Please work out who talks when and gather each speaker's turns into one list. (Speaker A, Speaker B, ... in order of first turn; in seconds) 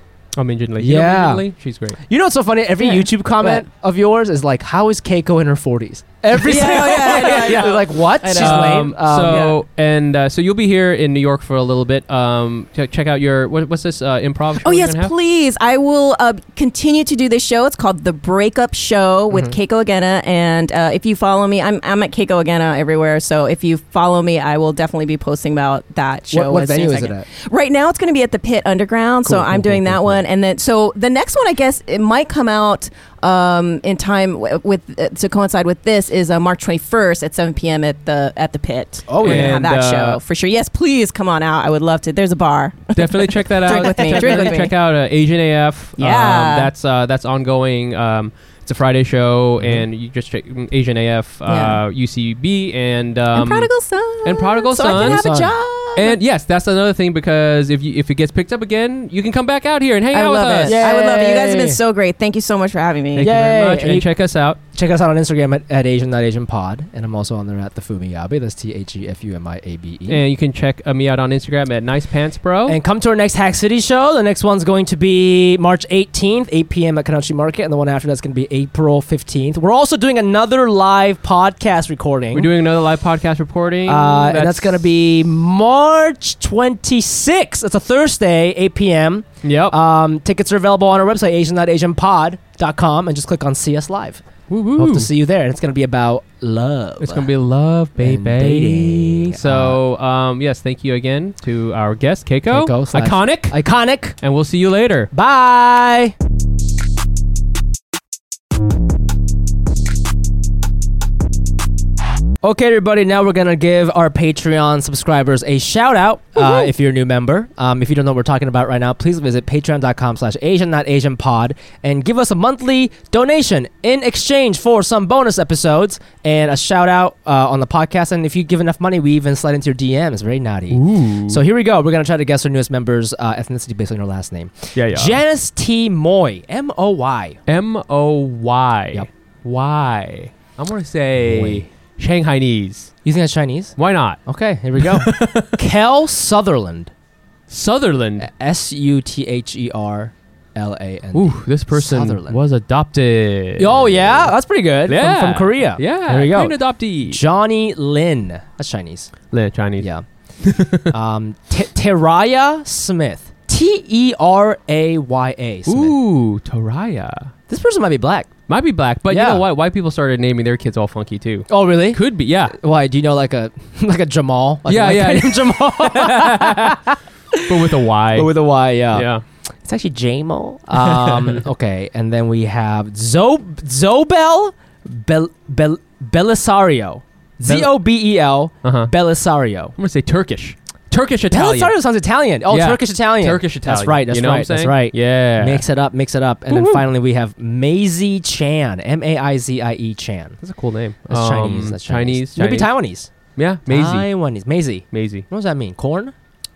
Speaker A: 0.4-2.0, 6.4-7.7, 8.3-15.1, 39.2-40.2, 42.9-53.7, 54.2-55.2, 55.9-60.8, 63.1-64.6, 70.1-72.8, 82.3-84.7, 89.4-89.8, 94.5-95.1, 97.0-103.6, 104.2-105.1, 130.7-131.4, 134.7-135.2, 137.5-142.9, 143.8-144.2, 144.8-145.6, 147.5-148.3, 151.1-154.3, 154.9-157.2, 159.3-159.9, 160.4-160.9, 165.7-167.3, 168.5-172.6, 174.7-176.8, 177.4-178.3, 178.9-179.2, 180.7-181.4, 187.4-187.7, 188.6-188.9, 189.8-191.7, 192.5-195.6, 196.5-196.8, 200.4-202.7, 203.3-204.1, 204.9-205.2
Speaker B: 0.8-1.4, 2.1-9.5, 19.3-19.6, 26.3-27.3, 29.2-30.2, 39.1-39.6, 43.7-44.6, 49.6-49.9, 54.8-55.5, 60.6-61.8, 63.2-64.1, 64.7-70.2, 72.7-82.5, 83.8-94.2, 94.8-97.3, 98.0-99.8, 102.5-104.2, 105.1-106.1, 112.4-137.4, 141.2-141.7, 143.0-146.9, 148.2-152.4, 153.6-159.1, 159.8-160.0, 160.9-165.9, 167.5-168.4, 169.1-169.4, 171.5-179.1, 179.6-189.8, 191.3-200.4, 201.1-203.1, 203.7-206.1
Speaker C: 2.8-3.6, 6.4-9.6, 14.6-44.7, 46.0-46.7, 51.5-51.8, 53.3-56.2, 60.1-63.3